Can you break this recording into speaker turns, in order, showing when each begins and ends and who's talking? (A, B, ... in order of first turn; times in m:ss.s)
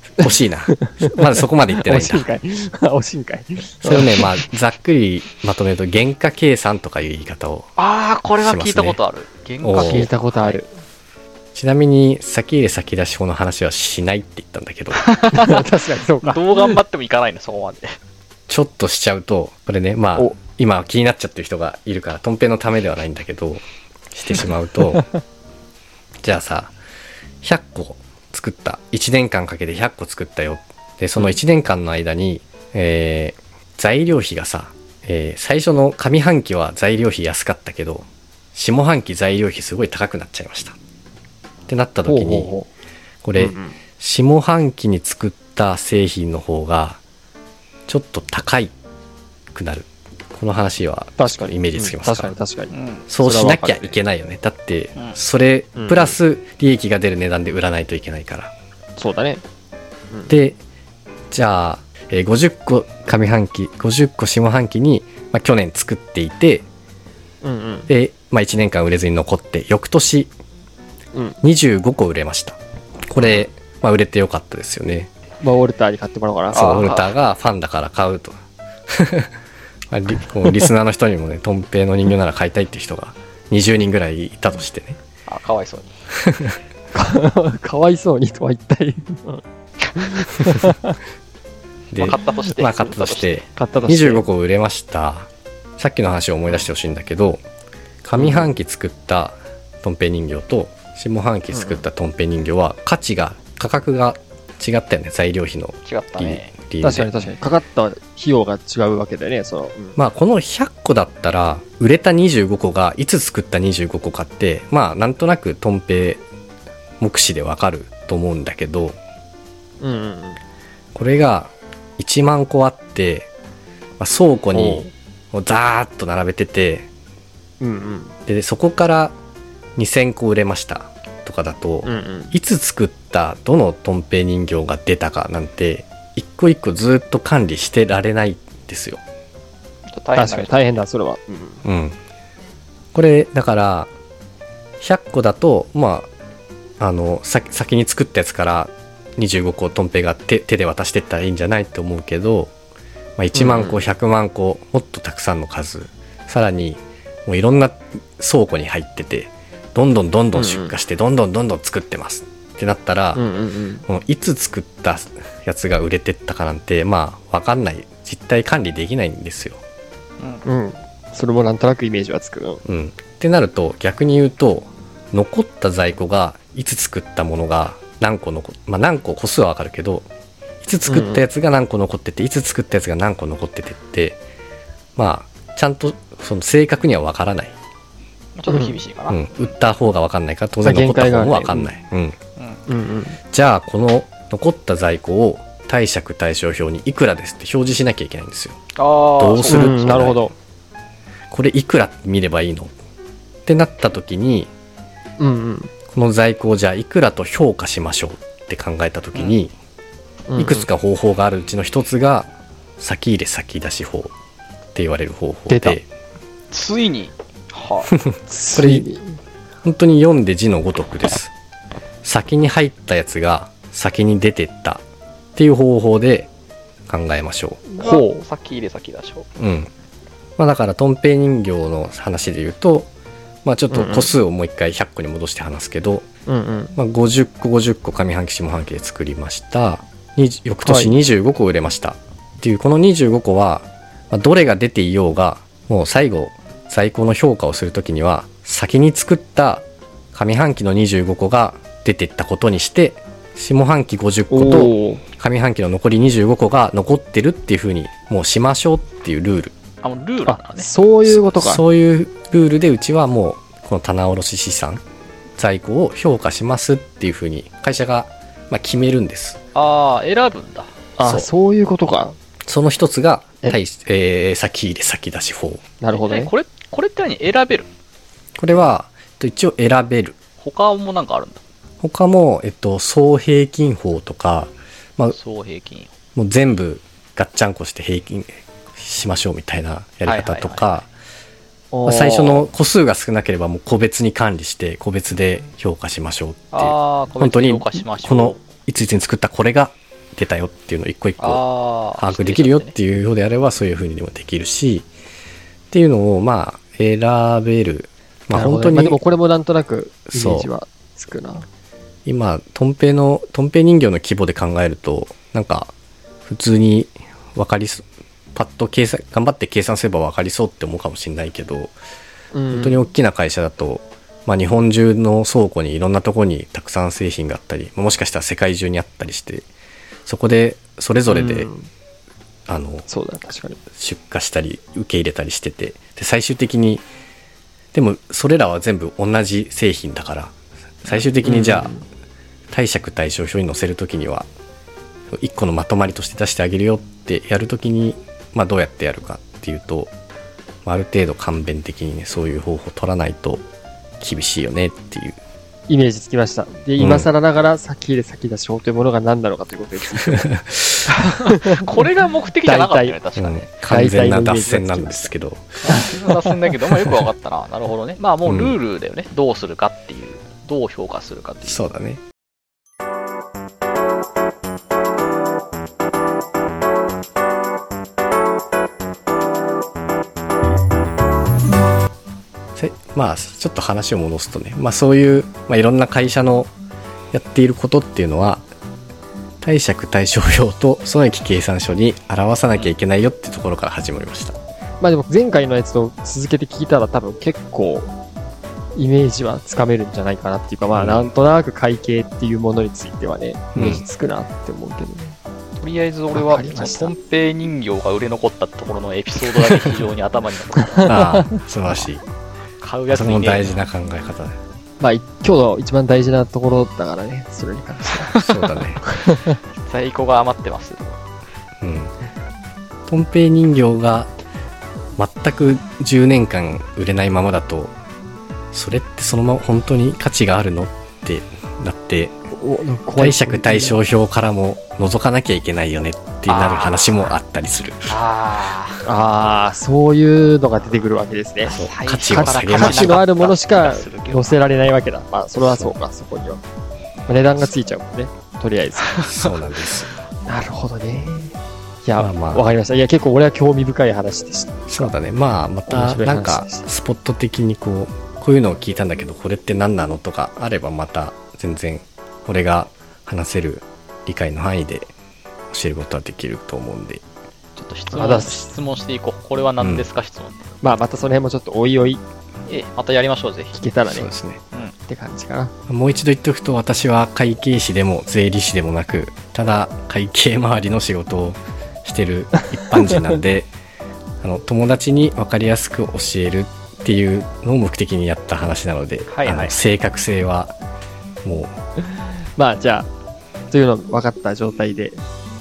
0:00.2-0:02.3 A
0:00.2-0:01.1 B
0:01.8-0:04.3 B
0:03.8-0:07.7 A
0:07.8-0:10.6 C
0:08.4-0:09.0 A
0:09.6-0:10.1 A
0:09.8-0:10.7 B
0:11.5-0:15.0 A
0:15.0-0:15.7 C
0:15.3-0:16.8 B
0:16.2-0:17.9 C
0:18.5-0:25.1 A
0:26.2-0:26.7 A
0:27.4-0:40.8 A
0:41.7-0:42.5 A
0:42.1-0:42.7 B
0:43.2-0:47.0 A
0:43.4-0:43.8 B
0:47.9-0:48.7 A
0:49.5-0:52.4 A
0:51.2-0:54.0 B
0:52.7-0:53.0 C
0:53.1-0:58.5 A
0:55.8-0:56.2 B
0:59.0-0:59.4 B
1:00.3-1:00.6 A
1:01.3-1:06.6 A
1:07.4-1:07.9 B
1:07.9-1:10.3 A
1:11.1-1:11.4 B
1:11.4-1:15.1 A
1:15.4-1:16.9 B
1:16.5-1:18.4 A
1:16.5-1:17.1 C
1:18.9-1:19.3 A
1:19.9-1:25.0 A
1:25.3-1:25.9 C
1:26.1-1:26.6 A
1:26.9-1:29.4 B
1:30.0-1:31.0 B
1:31.9-1:37.4 A
1:32.0-1:33.5 C
1:33.6-1:34.2 B
1:38.0-1:47.1 A
1:38.1-1:38.5 B
1:41.5-1:41.8 B
1:45.9-1:46.5 C
1:46.8-1:50.0 B
1:50.0-1:56.2 A
1:57.0-1:59.0 A
1:59.8-2:00.4 B
2:00.9-2:03.3 A
2:04.0-2:06.9 A
2:04.5-2:04.9 B
2:07.6-2:08.1 B
2:08.3-2:09.1 A
2:09.8-2:19.0 A
2:11.8-2:12.3 B
2:19.9-2:20.8 C
2:20.1-2:21.6 B
2:21.6-2:22.0 A
2:22.9-2:23.9 A
2:24.8-2:26.1 A
2:26.8-2:32.5 A
2:33.2-2:43.2 A
2:33.3-2:33.8 B
2:40.3-2:40.8 B
2:43.1-2:43.8 B
2:43.9-2:49.6 A
2:50.4-2:52.6 B
2:52.6-3:00.0 A
3:00.6-3:04.2 A
3:00.9-3:01.2 B
3:05.0-3:07.5 A
3:08.4-3:09.2 C
3:08.5-3:08.8 B
3:09.1-3:12.2 A
3:10.6-3:11.7 B
3:12.7-3:13.2 B
3:13.3-3:18.6 A
3:18.8-3:19.7 C
3:19.2-3:20.2 A
3:19.4-3:20.3 B
3:21.3-3:22.7 A
3:23.5-3:24.5 A
3:25.2-3:25.7 B
3:25.9-3:29.5 A
3:30.3-3:30.7 B
3:30.4-3:34.1 A
3:34.8-3:35.8 A
3:35.5-3:35.8 B
3:36.5-3:37.9 C
3:37.9-3:38.9 A
3:38.3-3:39.2 B
3:39.6-3:41.3 A
3:42.0-3:44.8 A
3:45.4-3:46.3 A
3:46.9-3:47.6 A
3:47.7-3:48.2 B
3:47.8-3:49.3 C
3:49.4-3:49.7 A
3:50.4-3:52.9 A
3:53.4-3:56.0 A
3:53.7-3:54.1 B
3:56.3-3:56.8 B
3:56.8-4:19.5 A
4:00.6-4:00.9 B
4:14.3-4:15.0 B
4:19.8-4:20.7 C
4:20.2-4:21.6 B
4:21.1-4:24.8 A
4:25.4-4:29.4 A
4:29.5-4:30.7 C
4:31.0-4:32.2 B
4:31.0-4:31.3 A
4:32.5-4:35.6 A
4:35.8-4:36.3 B
4:35.9-4:37.7 C
4:38.4-4:40.2 A
4:40.4-4:41.4 C
4:41.8-4:45.2 A
4:45.1-4:45.9 C
4:46.2-4:50.9 A
4:50.0-4:50.7 C
4:51.7-4:52.5 B
4:51.8-5:01.4 A
4:56.5-4:58.4 C
5:01.2-5:02.7 C
5:01.9-5:04.9 A
5:05.7-5:09.0 A
5:08.3-5:11.4 B
5:10.1-5:10.5 A
5:12.0-5:15.7 A
5:16.2-5:21.7 A
5:22.3-5:22.8 B
5:22.5-5:29.5 A
5:30.0-5:31.5 A
5:31.1-5:31.7 B
5:32.5-5:32.9 A
5:32.9-5:33.6 B
5:33.8-5:36.8 A
5:37.7-5:40.3 A
5:40.8-5:41.7 A
5:41.2-5:41.8 B
5:42.5-5:44.3 A
5:45.1-5:49.9 A
5:50.7-5:53.4 A
5:54.0-5:55.2 A
5:55.7-6:00.3 B
5:56.8-5:57.1 A
6:00.3-6:00.9 A
6:01.0-6:01.8 B
6:01.0-6:03.5 C
6:02.4-6:03.0 B
6:03.2-6:05.6 A
6:03.7-6:05.1 B
6:05.7-6:11.6 C
6:05.7-6:06.0 B
6:08.2-6:08.6 A
6:11.4-6:12.0 A
6:22.6-6:26.5 A
6:27.1-6:28.4 A
6:29.4-6:34.4 A
6:34.8-6:37.9 B
6:38.8-6:45.2 B
6:40.7-6:41.1 A
6:43.5-6:43.8 A
6:45.6-6:51.0 C
6:46.1-6:46.9 B
6:50.8-6:52.0 A
6:52.6-6:53.6 C
6:52.9-6:54.4 A
6:54.8-6:58.1 B
6:58.0-6:58.5 C
6:58.1-6:58.8 A
6:58.8-6:59.4 B
6:59.6-7:01.0 C
7:01.6-7:01.9 A
7:02.9-7:04.1 A
7:05.0-7:07.7 A
7:08.5-7:12.2 A
7:12.3-7:13.8 B
7:13.0-7:18.0 A
7:16.3-7:17.1 C
7:17.9-7:18.8 C
7:18.8-7:21.5 B
7:21.4-7:24.4 C
7:21.5-7:23.0 A
7:22.1-7:26.4 B
7:25.4-7:25.8 A
7:27.1-7:29.0 B
7:28.8-7:29.8 C
7:29.0-7:29.9 A
7:30.2-7:34.9 B
7:32.0-7:32.5 A
7:34.7-7:44.9 A
7:35.7-7:36.7 B
7:45.5-7:47.0 A
7:47.6-7:50.5 C
7:47.9-7:48.5 B
7:49.6-7:49.8 A
7:50.6-7:52.0 B
7:52.5-7:53.6 C
7:53.5-7:54.1 B
7:53.8-7:54.4 A
7:54.9-7:55.5 B
7:55.7-8:03.5 A
8:04.2-8:10.6 A
8:09.1-8:09.5 C
8:11.2-8:11.5 A
8:12.4-8:12.9 B
8:13.5-8:15.0 B